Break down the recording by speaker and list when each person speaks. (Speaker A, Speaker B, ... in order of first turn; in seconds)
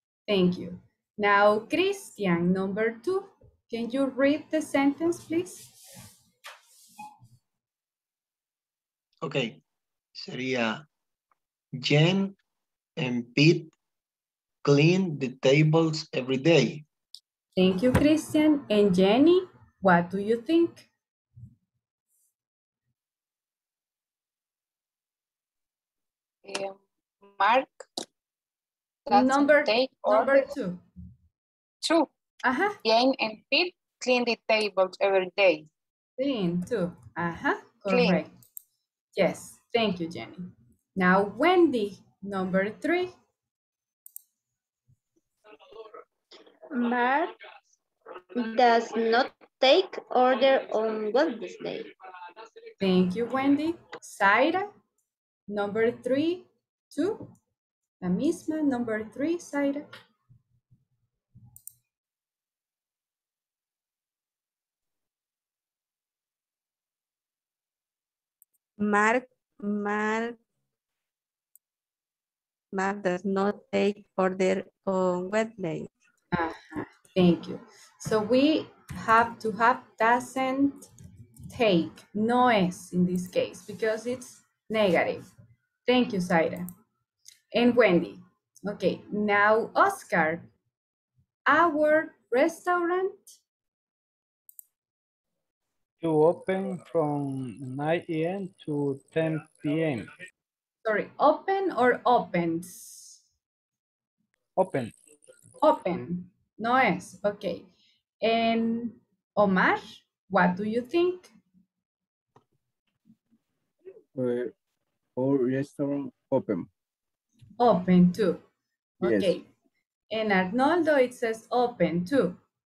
Speaker A: 0.3-5.7, 17.6-20.9, 29.1-30.8, 32.4-32.8, 36.2-38.3, 39.2-43.1, 52.8-54.7, 55.5-57.3, 58.0-59.9, 76.3-80.9, 81.5-85.3, 85.9-86.7, 87.5-90.5, 91.5-93.4, 100.8-103.2, 105.6-107.7, 108.2-111.3, 117.6-118.4, 119.0-119.5, 120.1-122.4
Speaker B: 9.2-9.6, 10.2-10.8, 11.8-12.4, 13.0-13.7, 14.6-16.9
Speaker C: 26.4-27.9, 29.1-30.5, 31.8-32.1, 32.8-35.7, 37.9-38.2
Speaker D: 46.7-47.3, 48.4-51.9
Speaker E: 68.8-70.4, 72.7-75.9
Speaker F: 96.0-100.1, 104.6-104.9
Speaker G: 114.2-114.5, 115.2-116.7, 119.0-119.4